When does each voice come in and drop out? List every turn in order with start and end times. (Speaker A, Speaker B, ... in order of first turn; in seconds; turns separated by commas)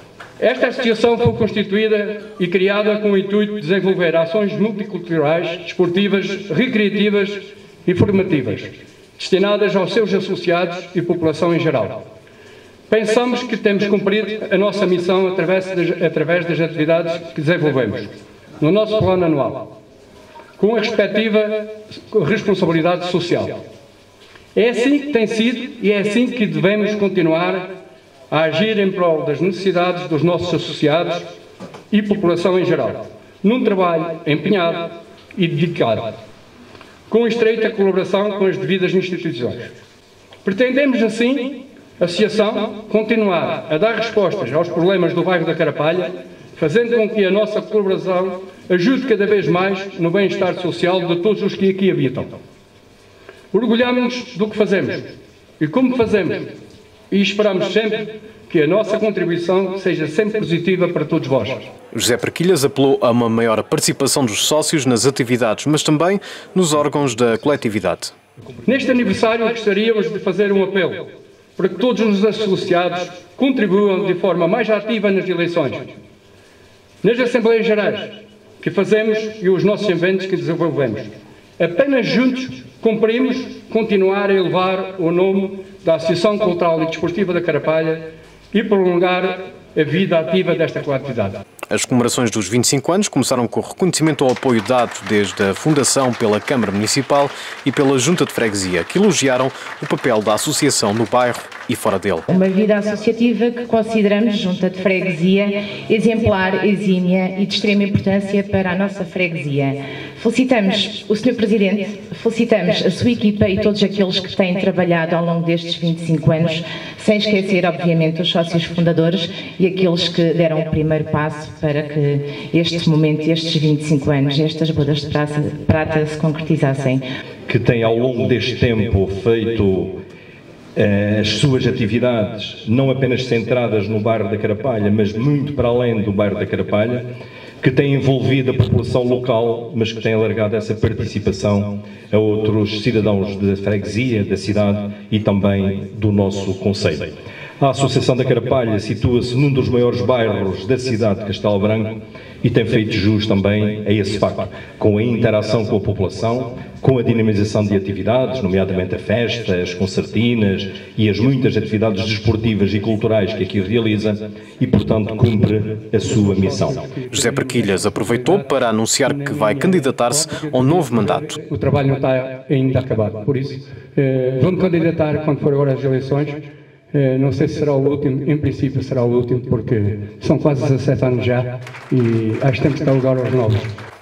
Speaker A: 0.4-12.0, Speaker A: 12.9-19.7, Speaker A: 20.6-23.6, Speaker A: 24.6-27.7, Speaker A: 28.3-31.3, Speaker A: 31.9-36.1, Speaker A: 37.1-39.7, Speaker A: 40.5-52.4, Speaker A: 53.5-55.1, Speaker A: 55.6-56.5, Speaker A: 57.1-61.7, Speaker B: 61.9-68.1, Speaker A: 68.7-76.0, Speaker A: 77.0-91.4, Speaker B: 91.7-102.3, Speaker C: 102.3-127.0, Speaker D: 127.5-130.0, Speaker D: 130.8-137.1, Speaker D: 137.6-166.9, Speaker A: 166.8-168.4, Speaker B: 167.1-171.3, Speaker A: 169.1-183.7